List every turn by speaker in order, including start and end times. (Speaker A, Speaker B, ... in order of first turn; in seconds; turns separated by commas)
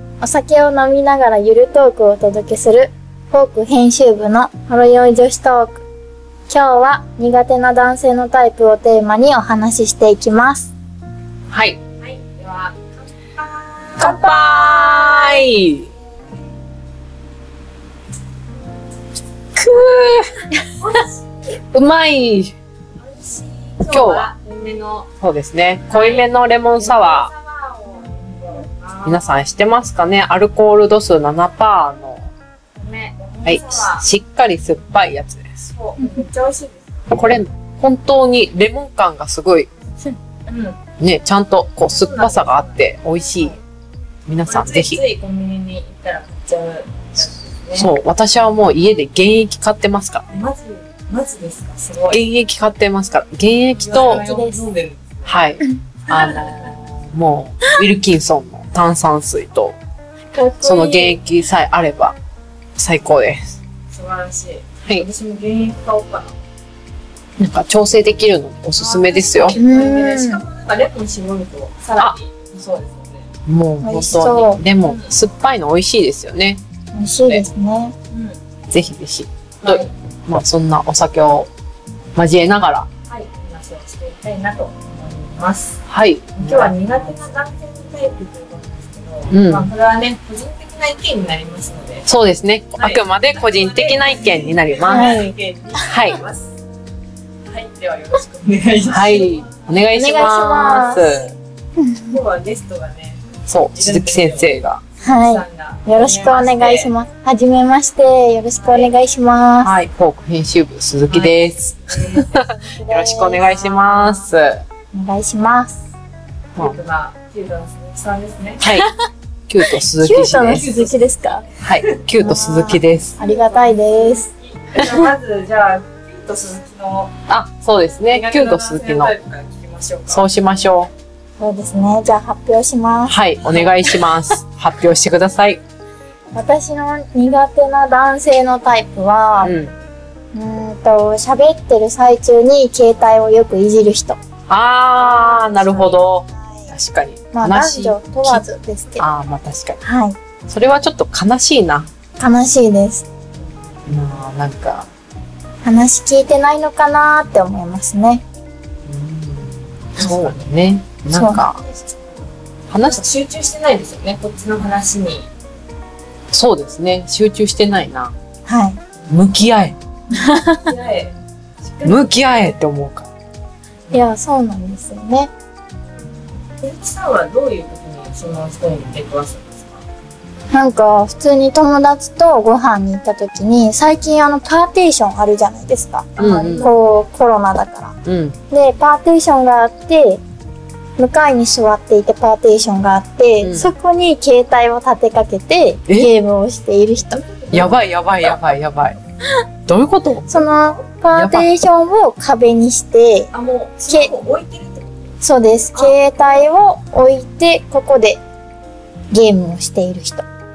Speaker A: 0.2-5.8, Speaker A: 6.5-10.7, Speaker B: 11.5-11.8, Speaker C: 12.0-15.4, Speaker B: 14.0-15.9, Speaker B: 19.6-20.4, Speaker C: 20.8-21.2, Speaker B: 21.7-22.5, Speaker C: 23.0-25.1, Speaker B: 23.9-24.3, Speaker B: 25.2-27.3, Speaker C: 25.9-29.4, Speaker B: 29.1-32.2, Speaker C: 32.8-34.1, Speaker B: 33.5-35.7, Speaker C: 35.7-37.1, Speaker A: 36.0-36.2, Speaker B: 37.1-39.7, Speaker C: 40.5-40.8, Speaker B: 41.0-43.5, Speaker C: 41.9-43.6, Speaker B: 44.3-45.0, Speaker C: 44.5-47.9, Speaker B: 47.8-50.3, Speaker C: 50.3-52.2, Speaker B: 52.1-54.2, Speaker C: 53.8-55.4, Speaker A: 54.2-54.6, Speaker B: 55.3-59.8, Speaker C: 56.1-56.7, Speaker A: 60.3-61.2, Speaker B: 60.6-62.2, Speaker B: 62.8-63.6, Speaker C: 63.9-66.4, Speaker B: 67.4-69.6, Speaker C: 68.8-73.3, Speaker A: 69.5-70.4, Speaker B: 73.5-76.6, Speaker A: 73.8-74.6, Speaker C: 74.8-75.1, Speaker A: 76.9-77.9, Speaker C: 78.1-78.4, Speaker B: 78.7-81.5, Speaker C: 79.6-79.9, Speaker B: 82.2-82.9, Speaker C: 83.1-85.8, Speaker B: 85.9-86.7, Speaker C: 86.3-92.1, Speaker B: 89.3-89.7, Speaker B: 92.1-95.2, Speaker C: 92.8-96.5, Speaker A: 94.9-95.3, Speaker B: 95.8-96.2, Speaker C: 97.5-99.6, Speaker B: 98.9-101.3, Speaker A: 99.9-101.0, Speaker C: 100.2-101.3, Speaker A: 101.8-102.2, Speaker C: 102.1-103.2, Speaker B: 103.5-104.8, Speaker C: 103.7-106.9, Speaker A: 105.0-109.8, Speaker C: 108.6-108.9, Speaker B: 109.6-114.6, Speaker C: 111.1-112.7, Speaker A: 112.7-113.4, Speaker C: 113.3-114.3, Speaker A: 114.9-115.8, Speaker C: 116.6-118.7, Speaker B: 118.6-118.9, Speaker B: 119.5-120.7, Speaker A: 119.9-121.5, Speaker C: 120.5-121.8, Speaker B: 121.6-123.2, Speaker A: 122.2-124.3, Speaker C: 123.2-127.1, Speaker B: 127.3-129.1, Speaker C: 128.1-130.3, Speaker B: 130.1-130.9, Speaker A: 131.4-133.2, Speaker B: 133.1-135.6, Speaker A: 136.3-139.5, Speaker C: 139.4-139.9, Speaker B: 139.4-139.7, Speaker A: 140.3-144.2, Speaker B: 144.5-148.4, Speaker C: 145.0-146.0, Speaker A: 146.2-146.7, Speaker A: 147.3-149.1, Speaker B: 149.0-149.8, Speaker A: 149.8-150.2, Speaker B: 150.5-151.9, Speaker A: 152.2-153.1, Speaker B: 153.9-154.9, Speaker A: 155.6-158.2, Speaker B: 158.9-161.6, Speaker C: 160.0-160.5, Speaker A: 161.1-161.4, Speaker C: 161.6-162.0, Speaker B: 162.7-163.1, Speaker C: 162.8-165.3, Speaker B: 166.3-168.1, Speaker A: 168.5-168.8, Speaker B: 169.1-169.8, Speaker A: 170.1-170.7, Speaker C: 170.3-172.6, Speaker B: 171.8-173.1, Speaker A: 173.9-175.3, Speaker C: 176.0-179.8, Speaker A: 180.5-188.0, Speaker C: 186.2-187.0, Speaker B: 186.2-186.7, Speaker B: 188.0-188.4, Speaker A: 188.5-190.2, Speaker A: 191.0-197.2, Speaker B: 193.4-193.7, Speaker C: 197.0-198.4, Speaker B: 197.5-199.0, Speaker B: 199.7-200.3, Speaker A: 200.3-203.3, Speaker C: 200.3-200.8, Speaker B: 201.1-201.5, Speaker C: 203.3-205.1, Speaker A: 205.2-208.2, Speaker C: 205.7-206.5, Speaker A: 209.1-210.2